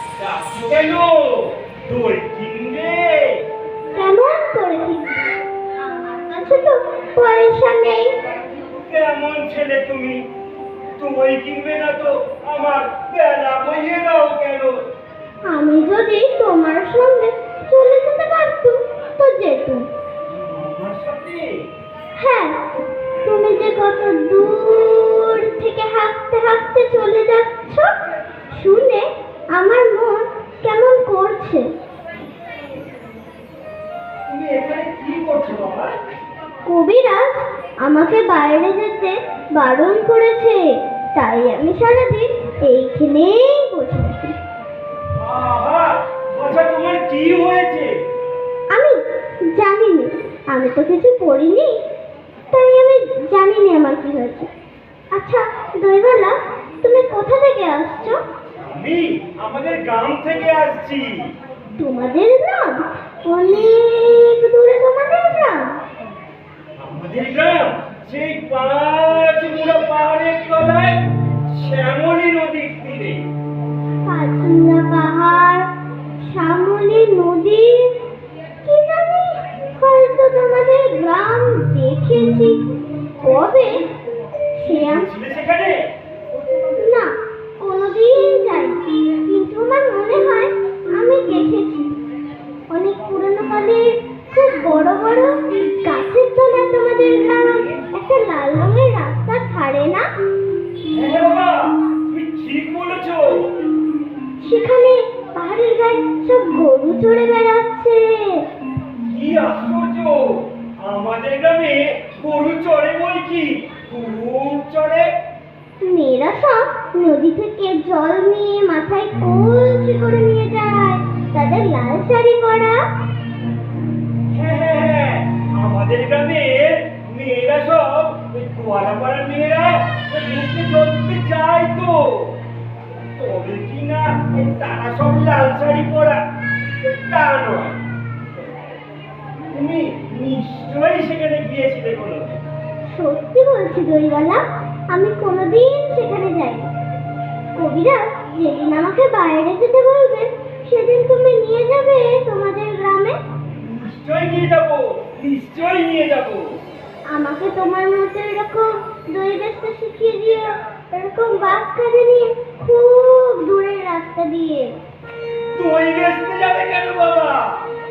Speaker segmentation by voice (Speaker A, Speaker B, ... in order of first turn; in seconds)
Speaker A: 0.2-3.5, 8.7-10.3, 11.0-14.8, 20.3-21.5, 34.3-35.9, 45.2-48.0, 58.6-61.4, 66.8-73.3, 84.7-85.9, 100.9-103.5, 109.0-115.1, 124.3-132.4, 133.2-136.2, 136.8-137.8, 139.5-142.4, 153.6-156.6, 165.5-167.7
Speaker B: 3.9-8.2, 15.4-19.9, 22.2-27.9, 28.5-31.7, 36.6-44.4, 48.7-51.8, 52.5-54.5, 55.1-58.2, 61.8-65.8, 74.0-75.7, 76.2-78.0, 78.6-82.6, 83.2-83.9, 84.6-85.1, 86.8-92.0, 92.7-100.1, 104.4-108.5, 115.8-122.8, 142.9-146.7, 147.5-153.2, 157.1-164.8